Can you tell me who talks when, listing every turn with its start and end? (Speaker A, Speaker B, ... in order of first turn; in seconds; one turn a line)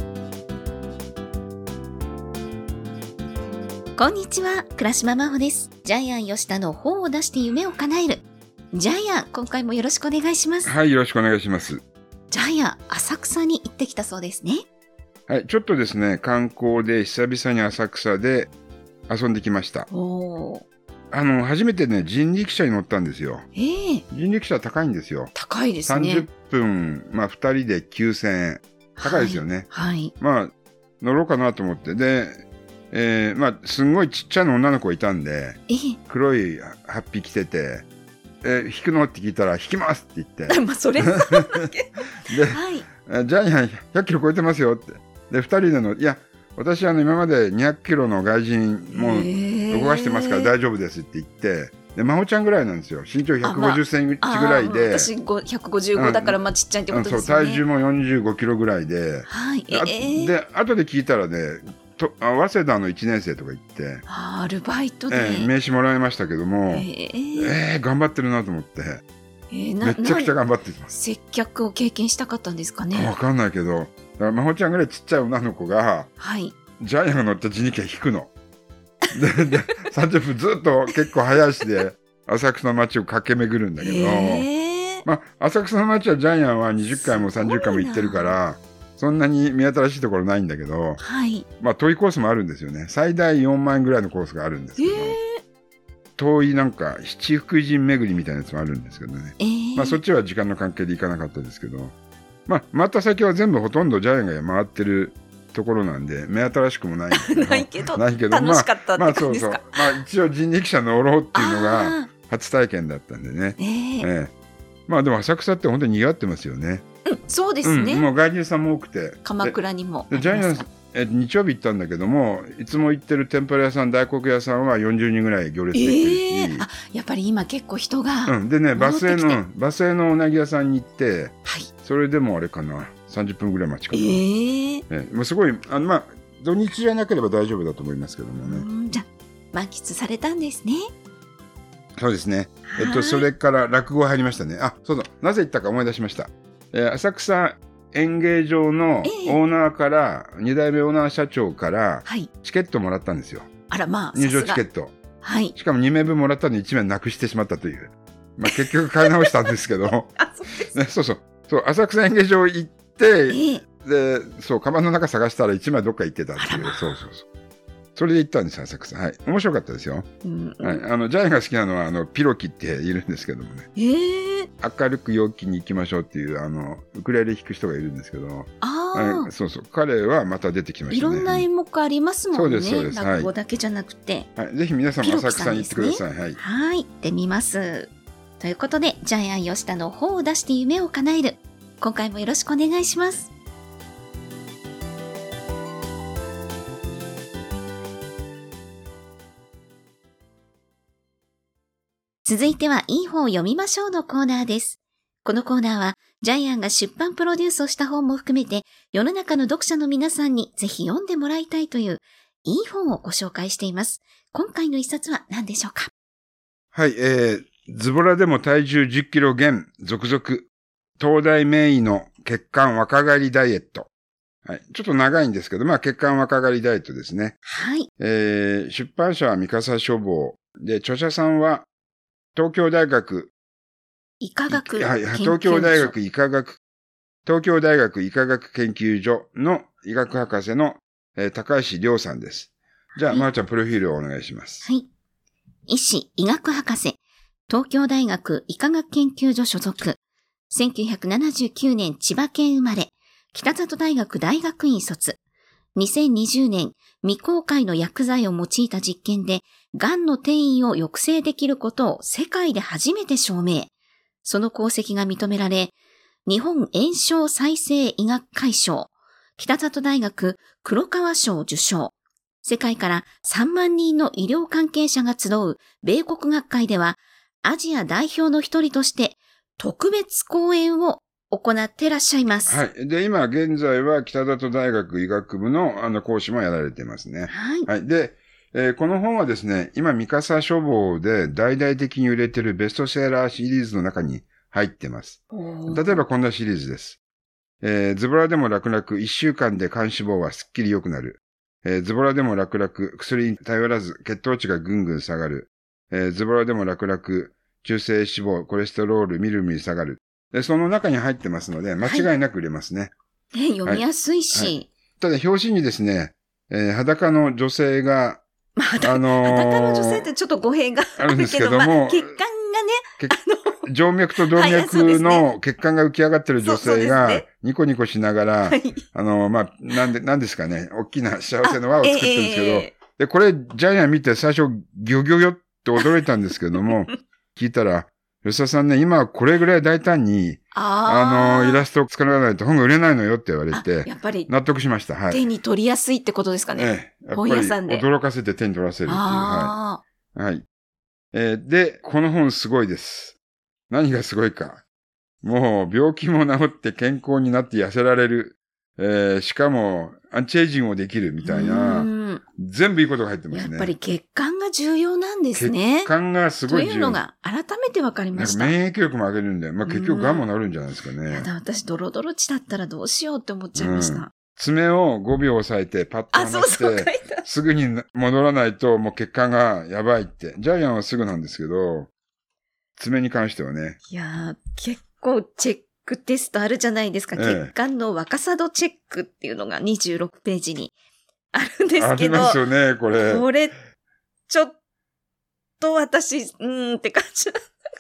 Speaker A: 4.0-10.7
Speaker B: 10.6-11.8
Speaker A: 12.3-14.6
Speaker B: 15.3-18.5
Speaker B: 19.1-19.9
Speaker A: 19.9-20.6
Speaker B: 21.1-23.4
Speaker A: 23.6-24.0
Speaker B: 24.1-25.3
Speaker A: 25.4-26.3
Speaker B: 25.9-29.7
Speaker A: 29.0-30.1
Speaker B: 30.2-37.9
Speaker A: 35.7-36.0
Speaker B: 38.4-41.7
Speaker A: 40.5-42.9
Speaker B: 42.3-55.1
Speaker A: 48.9-50.5
Speaker A: 53.4-57.6
Speaker B: 56.0-56.4
Speaker B: 56.9-64.0
Speaker A: 59.3-60.3
Speaker A: 64.1-65.5
Speaker B: 65.1-69.0
Speaker A: 66.7-67.5
Speaker A: 69.5-70.3
Speaker B: 69.8-70.9
Speaker A: 70.9-73.1
Speaker B: 72.9-76.1
Speaker A: 76.2-76.5
Speaker B: 76.8-78.3
Speaker B: 79.1-84.5
Speaker A: 83.8-85.0
Speaker B: 85.0-91.0
Speaker A: 87.0-88.4
Speaker A: 91.0-91.5
Speaker B: 91.6-95.2
Speaker A: 94.8-95.4
Speaker B: 96.2-101.9
Speaker A: 99.4-100.0
Speaker B: 102.5-114.3
Speaker A: 107.1-109.8
Speaker A: 111.3-112.1
Speaker A: 113.6-114.1
Speaker B: 114.9-116.8
Speaker A: 117.1-118.1
Speaker B: 117.6-119.6
Speaker A: 119.2-120.7
Speaker B: 120.1-126.7
Speaker A: 125.7-129.4
Speaker B: 128.3-134.2
Speaker A: 133.9-134.8
Speaker B: 134.9-138.7
Speaker A: 138.4-140.9
Speaker B: 142.0-153.5
Speaker A: 142.7-143.3
Speaker A: 149.0-149.4
Speaker A: 152.1-152.3
Speaker A: 153.7-154.6
Speaker B: 154.2-154.9
Speaker A: 155.2-155.5
Speaker B: 155.6-160.1
Speaker A: 158.5-159.5
Speaker A: 160.2-160.8
Speaker B: 160.7-167.3
Speaker A: 163.3-163.6
Speaker A: 166.4-167.0
Speaker B: 167.9-170.1
Speaker A: 170.2-170.8
Speaker B: 170.6-173.7
Speaker A: 173.8-174.5
Speaker B: 174.6-181.5
Speaker A: 178.6-179.3
Speaker A: 180.9-184.3
Speaker B: 182.3-183.3
Speaker B: 184.4-186.4
Speaker A: 185.0-193.3
Speaker A: 202.2-215.9
Speaker B: 216.7-223.9
Speaker B: 224.4-227.4
Speaker A: 227.5-227.9
Speaker B: 228.0-231.7
Speaker B: 232.3-233.3
Speaker A: 234.2-235.9
Speaker B: 234.5-236.6
Speaker B: 237.2-244.7
Speaker A: 243.0-243.3
Speaker A: 245.7-250.0
Speaker A: 250.5-255.2
Speaker A: 255.8-263.7
Speaker A: 264.2-265.7
Speaker A: 266.3-282.6
Speaker B: 282.5-297.0
Speaker A: 287.3-287.7
Speaker A: 295.3-296.1
Speaker B: 297.6-312.9
Speaker A: 311.8-312.1
Speaker A: 313.3-314.7
Speaker B: 313.6-318.2
Speaker A: 318.6-323.6
Speaker B: 318.8-320.1
Speaker B: 321.0-322.1
Speaker B: 323.0-345.2
Speaker A: 324.2-325.3
Speaker A: 326.4-327.2
Speaker A: 328.5-328.8
Speaker A: 331.4-332.8
Speaker A: 340.5-341.7
Speaker A: 343.5-344.3
Speaker A: 345.1-347.9
Speaker B: 346.6-349.6
Speaker A: 348.9-349.8
Speaker B: 350.1-350.4
Speaker B: 351.1-353.2
Speaker B: 353.7-354.6
Speaker B: 355.2-363.7
Speaker A: 361.2-362.2
Speaker A: 363.3-365.9
Speaker B: 365.4-367.0
Speaker A: 366.5-368.5
Speaker B: 368.1-371.3
Speaker A: 369.6-370.2
Speaker A: 371.1-374.1
Speaker B: 373.6-381.9
Speaker A: 376.1-377.2
Speaker B: 382.8-383.8
Speaker A: 383.9-390.8
Speaker B: 387.1-387.5
Speaker A: 391.3-392.4
Speaker B: 391.8-393.3
Speaker A: 392.9-393.5
Speaker A: 394.3-394.6
Speaker A: 395.6-397.4